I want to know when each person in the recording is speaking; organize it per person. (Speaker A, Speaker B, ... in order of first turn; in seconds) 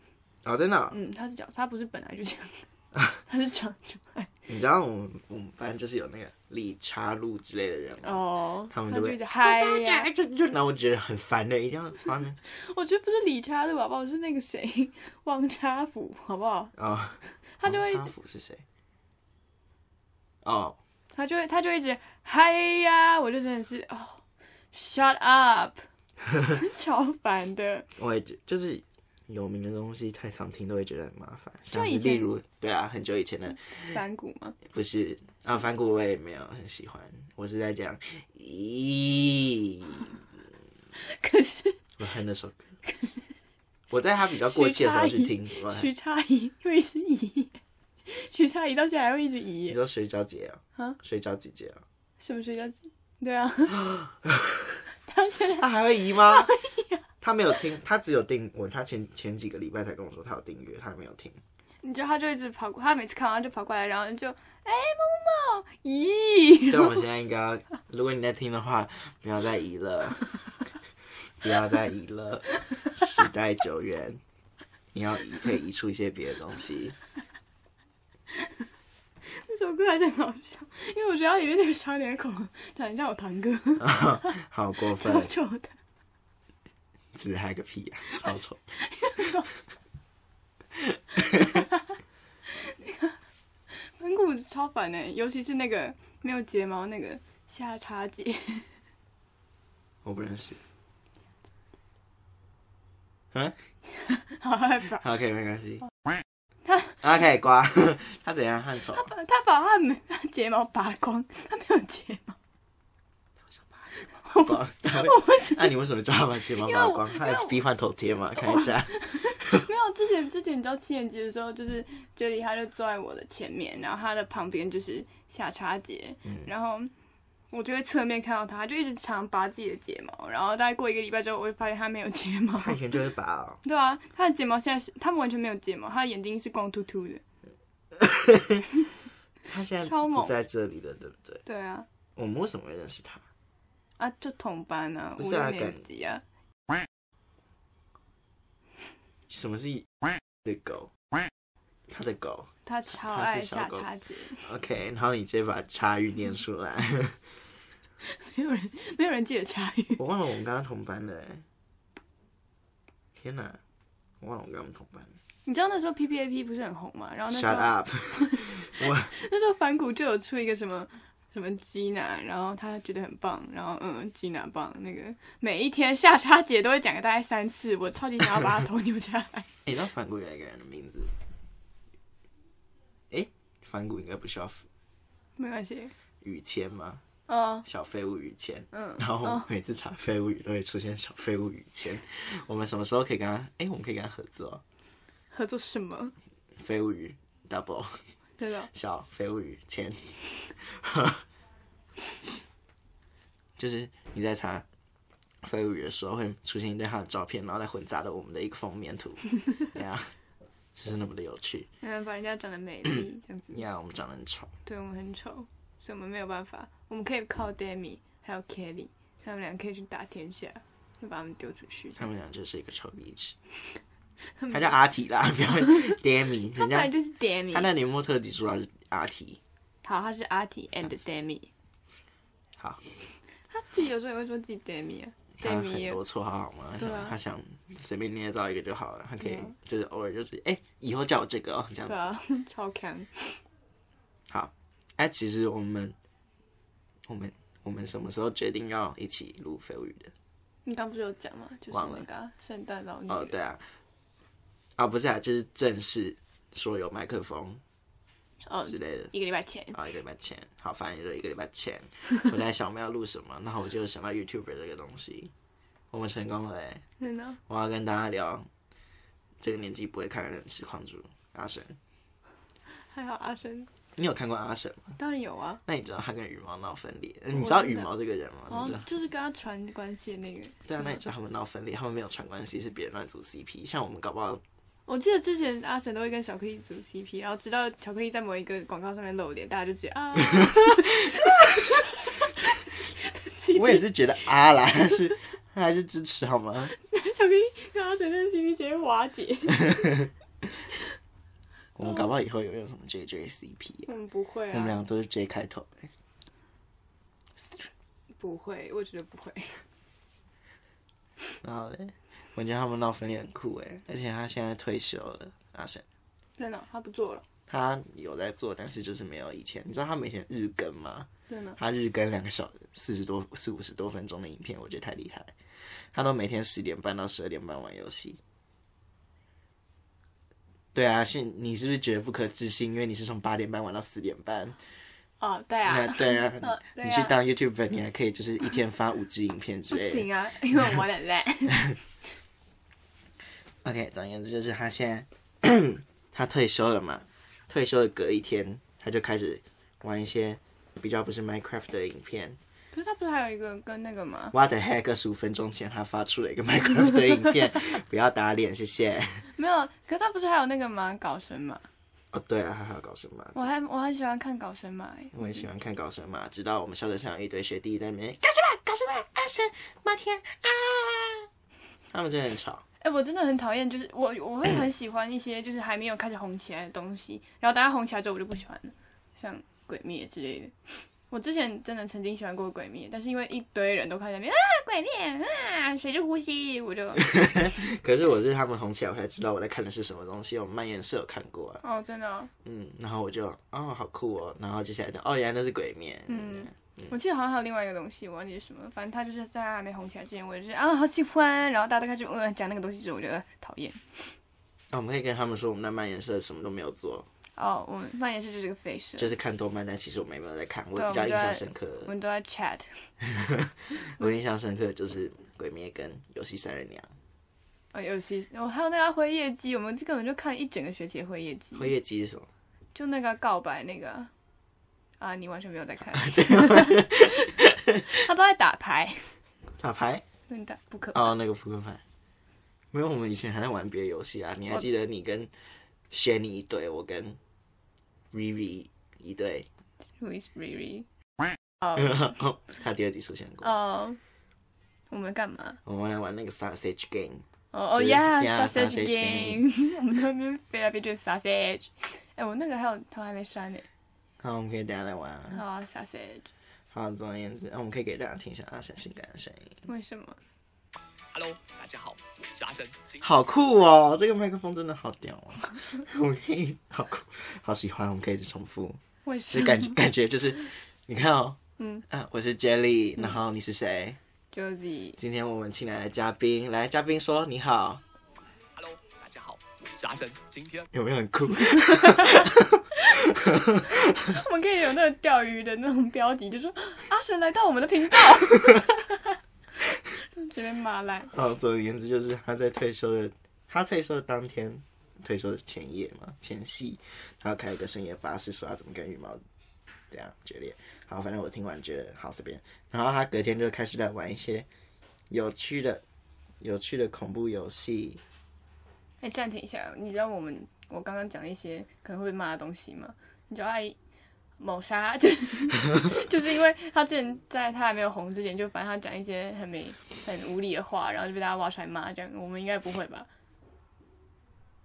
Speaker A: 0.4-1.0, 4.5-12.4, 16.8-18.6, 20.4-20.8, 28.0-34.0, 34.6-40.2, 42.0-42.7, 43.9-45.9, 49.7-51.8, 53.8-54.8, 55.6-56.5, 57.2-61.4, 66.7-70.3, 71.4-74.2, 74.9-77.0, 83.8-85.3, 87.1-88.7, 90.8-91.6, 100.0-100.6, 105.0-105.8, 107.0-109.1, 113.5-119.7, 132.6-133.6, 137.9-138.7, 139.5-141.4, 142.2-143.2, 145.2-145.8, 149.3-149.9, 150.4-150.9, 151.9-153.9, 154.4-157.2, 160.0-161.4, 163.2-163.6, 164.2-165.1, 167.3-169.1, 179.6-181.1, 183.1-184.7, 186.2-187.0, 187.6-194.6, 196.6-198.0, 198.7-201.2, 203.6-204.7, 205.4-210.1, 210.7-211.7, 213.5-214.5, 221.9-223.3, 224.5-226.9, 227.5-229.4, 232.6-232.8, 235.4-242.1, 244.3-245.9, 247.1-250.1, 251.7-252.0, 253.1-253.6, 254.8-257.6, 258.6-259.1, 259.7-265.3, 265.9-266.8, 267.5-268.5, 269.4-271.8, 273.9-275.0, 275.6-278.9, 280.7-284.4, 290.4-291.3, 293.5-296.7, 299.6-300.1, 301.8-303.9, 304.5-305.9, 311.4-315.8, 317.5-328.2, 330.7-334.6, 335.6-340.1, 343.6-352.4, 354.3-359.3, 362.1-363.5, 365.1-371.3, 371.9-372.6, 387.0-391.6, 392.4-397.0, 404.7-407.1, 409.0-411.9, 413.0-416.9, 421.6-422.3, 425.9-427.9, 429.6-430.0, 430.9-431.8, 432.7-435.3, 435.9-437.2, 438.1-439.5, 441.7-443.5, 445.6-449.4, 454.2-455.4, 456.7-459.6, 463.0-474.0, 475.0-477.8, 480.7-484.1, 491.1-499.2, 499.9-504.5, 505.1-505.8, 506.4-508.0
Speaker B: 0.9-2.7, 3.2-4.3, 8.0-10.1, 12.4-16.7, 17.5-18.1, 21.1-25.9, 26.4-27.9, 31.7-32.3, 33.8-34.6, 41.0-41.8, 42.9-43.1, 44.4-49.8, 52.2-53.9, 55.0-57.0, 61.8-67.0, 79.2-85.8, 88.8-89.5, 92.5-93.2, 93.7-98.7, 104.0-105.0, 106.7-107.0, 108.9-112.4, 114.2-115.7, 116.6-117.6, 118.4-126.9, 127.5-132.8, 133.6-137.2, 139.8-140.3, 141.4-141.9, 144.0-146.2, 152.7-154.5, 158.0-160.0, 165.4-179.5, 185.4-185.9, 187.3-187.6, 188.7-189.5, 195.3-196.1, 198.4-198.7, 211.8-213.6, 214.6-222.0, 224.4-224.8, 225.6-225.9, 226.6-227.7, 229.8-231.5, 233.5-236.0, 236.8-237.2, 239.2-239.5, 241.8-243.4, 250.6-253.3, 258.4-259.8, 267.0-267.4, 272.7-273.7, 275.0-275.6, 277.3-277.9, 278.5-281.0, 284.9-293.9, 296.7-300.1, 303.9-304.8, 307.4-309.6, 316.4-317.2, 321.3-321.6, 335.2-337.1, 339.7-341.8, 352.7-354.3, 359.4-361.6, 363.3-365.4, 372.8-387.2, 391.6-392.3, 396.1-404.1, 407.4-409.1, 410.7-412.9, 417.7-421.7, 422.7-424.1, 425.0-427.3, 427.9-429.1, 430.3-431.1, 440.0-440.9, 443.4-444.0, 444.9-445.6, 447.5-453.6, 455.3-456.3, 459.6-460.2, 469.0-469.8, 471.6-471.8, 474.3-475.0, 481.5-483.1, 483.7-489.2, 489.9-491.1, 509.0-513.8, 514.4-523.1
Speaker C: 461.1-463.0, 478.6-480.7